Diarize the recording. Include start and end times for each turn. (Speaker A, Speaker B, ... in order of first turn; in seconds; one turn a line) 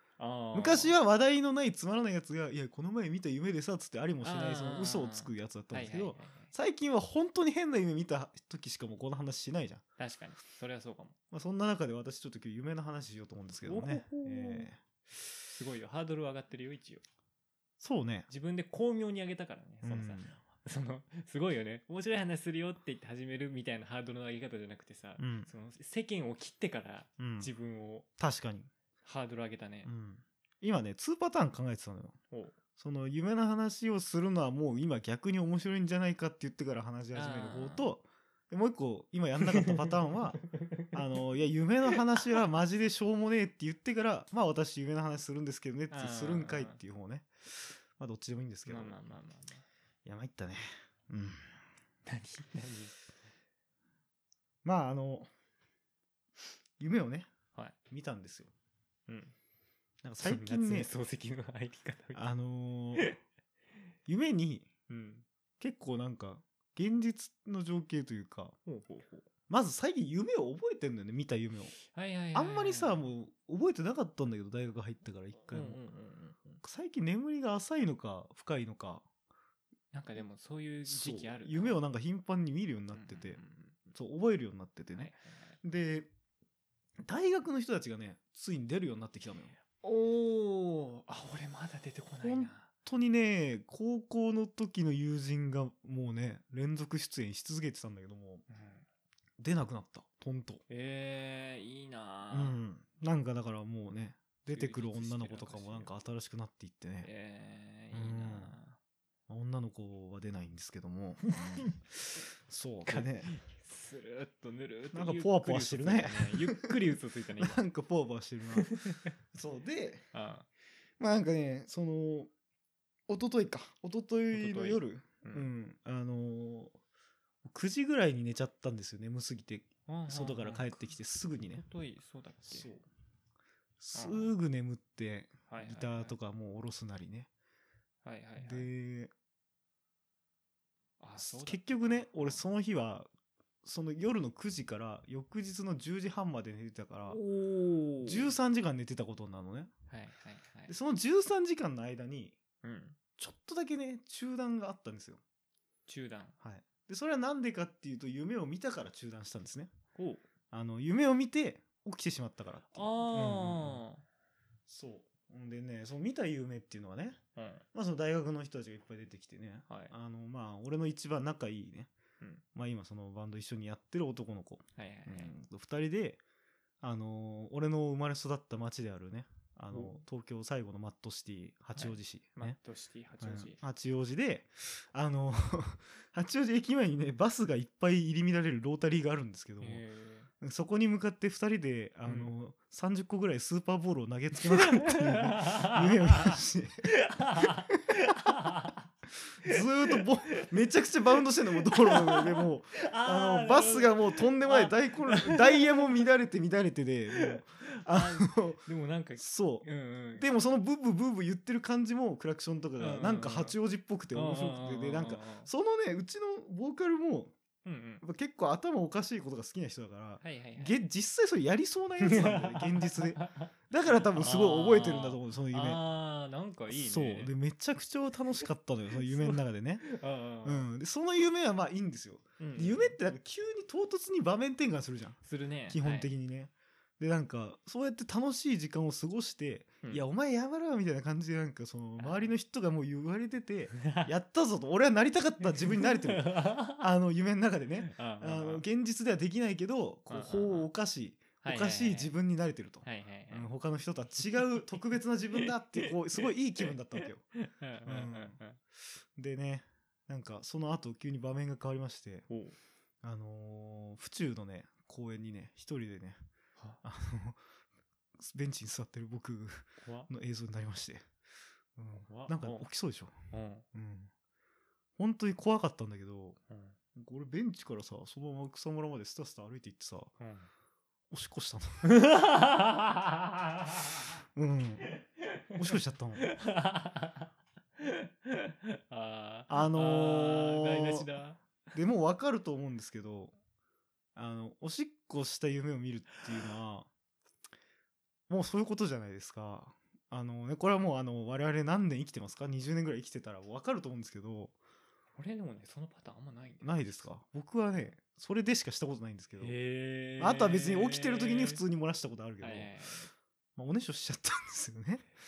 Speaker A: 0.2-1.0
Speaker B: 0.5-9.8
Speaker A: 4.2-6.5
Speaker A: 10.0-11.2
Speaker B: 11.3-14.8
Speaker A: 13.6-14.7
Speaker A: 15.5-17.0
Speaker B: 17.8-18.3
Speaker A: 18.3-28.1
Speaker B: 19.8-20.3
Speaker B: 25.2-25.5
Speaker B: 27.2-27.5
Speaker B: 28.2-28.7
Speaker A: 29.0-29.9
Speaker B: 29.8-32.2
Speaker A: 32.3-32.5
Speaker B: 32.8-40.4
Speaker A: 37.1-37.9
Speaker A: 39.4-41.0
Speaker B: 40.9-49.1
Speaker A: 45.9-46.8
Speaker A: 48.6-49.6
Speaker B: 50.0-51.5
Speaker A: 52.0-52.9
Speaker B: 54.6-55.3
Speaker B: 56.8-57.3
Speaker B: 57.9-58.5
Speaker A: 59.1-59.3
Speaker B: 60.0-60.9
Speaker A: 60.2-62.2
Speaker B: 62.1-63.1
Speaker B: 64.1-64.7
Speaker A: 64.9-65.2
Speaker B: 65.6-68.5
Speaker A: 68.6-69.2
Speaker B: 69.5-71.8
Speaker A: 71.9-73.0
Speaker B: 72.3-75.8
Speaker A: 75.5-76.6
Speaker B: 76.6-79.0
Speaker A: 79.9-81.8
Speaker B: 80.8-83.4
Speaker A: 82.9-83.9
Speaker B: 83.9-85.1
Speaker A: 84.9-85.6
Speaker B: 85.6-86.1
Speaker B: 87.0-89.5
Speaker A: 89.7-92.7
Speaker B: 92.2-98.4
Speaker A: 98.5-98.8
Speaker B: 99.4-100.6
Speaker A: 100.7-102.6
Speaker B: 102.3-107.1
Speaker A: 104.5-105.9
Speaker A: 107.0-108.8
Speaker B: 107.9-108.5
Speaker B: 109.3-113.3
Speaker A: 111.4-111.7
Speaker A: 112.9-117.6
Speaker B: 114.9-118.7
Speaker A: 118.5-119.1
Speaker B: 119.3-120.0
Speaker A: 120.1-120.5
Speaker B: 121.0-122.3
Speaker B: 123.1-126.7
Speaker A: 124.3-125.5
Speaker B: 127.4-131.6
Speaker A: 129.9-130.8
Speaker A: 131.5-132.7
Speaker B: 132.4-132.8
Speaker B: 133.8-137.3
Speaker A: 133.9-134.3
Speaker A: 135.5-136.2
Speaker A: 138.0-138.7
Speaker B: 138.4-139.1
Speaker A: 141.0-142.4
Speaker B: 141.2-143.1
Speaker B: 143.6-147.2
Speaker A: 147.1-148.3
Speaker B: 148.0-149.7
Speaker A: 149.9-150.7
Speaker B: 150.7-152.4
Speaker A: 152.6-153.0
Speaker B: 153.2-155.2
Speaker A: 155.9-156.3
Speaker B: 156.4-159.7
Speaker A: 159.9-160.2
Speaker B: 160.5-163.8
Speaker A: 162.7-164.0
Speaker B: 164.7-167.2
Speaker A: 167.3-167.6
Speaker B: 167.7-171.9
Speaker A: 169.7-169.9
Speaker B: 172.5-176.2
Speaker A: 174.8-175.4
Speaker B: 176.8-182.6
Speaker A: 179.7-180.0
Speaker A: 181.7-183.6
Speaker B: 183.2-189.8
Speaker A: 189.6-190.3
Speaker B: 190.4-198.3
Speaker A: 192.1-192.3
Speaker A: 194.5-196.4
Speaker A: 196.9-198.9
Speaker B: 199.4-208.6
Speaker A: 199.4-200.5
Speaker A: 201.2-206.0
Speaker A: 207.1-210.3
Speaker B: 209.2-217.3
Speaker A: 212.8-213.6
Speaker A: 214.1-215.5
Speaker A: 217.6-218.0
Speaker B: 218.0-225.8
Speaker A: 220.2-220.8
Speaker A: 222.0-227.3
Speaker B: 226.7-229.9
Speaker A: 229.0-230.7
Speaker B: 230.4-257.2
Speaker A: 232.4-233.0
Speaker A: 235.2-236.1
Speaker A: 242.0-242.3
Speaker A: 243.8-244.1
Speaker A: 245.6-246.8
Speaker A: 247.8-248.6
Speaker A: 250.1-250.7
Speaker A: 251.4-252.1
Speaker A: 252.8-253.5
Speaker A: 255.4-258.6
Speaker B: 257.9-258.4
Speaker B: 259.1-262.3
Speaker A: 262.3-262.6
Speaker B: 263.0-266.2
Speaker B: 266.8-267.4
Speaker B: 268.2-271.1
Speaker A: 269.8-270.1
Speaker B: 271.8-273.1
Speaker A: 272.0-272.7
Speaker A: 273.3-273.6
Speaker B: 273.7-274.1
Speaker B: 275.0-276.4
Speaker A: 276.5-276.8
Speaker B: 276.9-280.1
Speaker A: 280.2-280.5
Speaker B: 281.1-281.8
Speaker A: 281.8-284.1
Speaker B: 284.3-284.9
Speaker A: 284.9-291.4
Speaker B: 285.6-286.3
Speaker B: 289.5-291.1
Speaker B: 291.7-293.3
Speaker B: 294.1-296.9
Speaker B: 298.3-304.5
Speaker A: 305.1-307.0
Speaker B: 306.6-309.5
Speaker A: 309.4-311.6
Speaker B: 310.2-312.7
Speaker A: 312.4-313.1
Speaker B: 313.6-315.1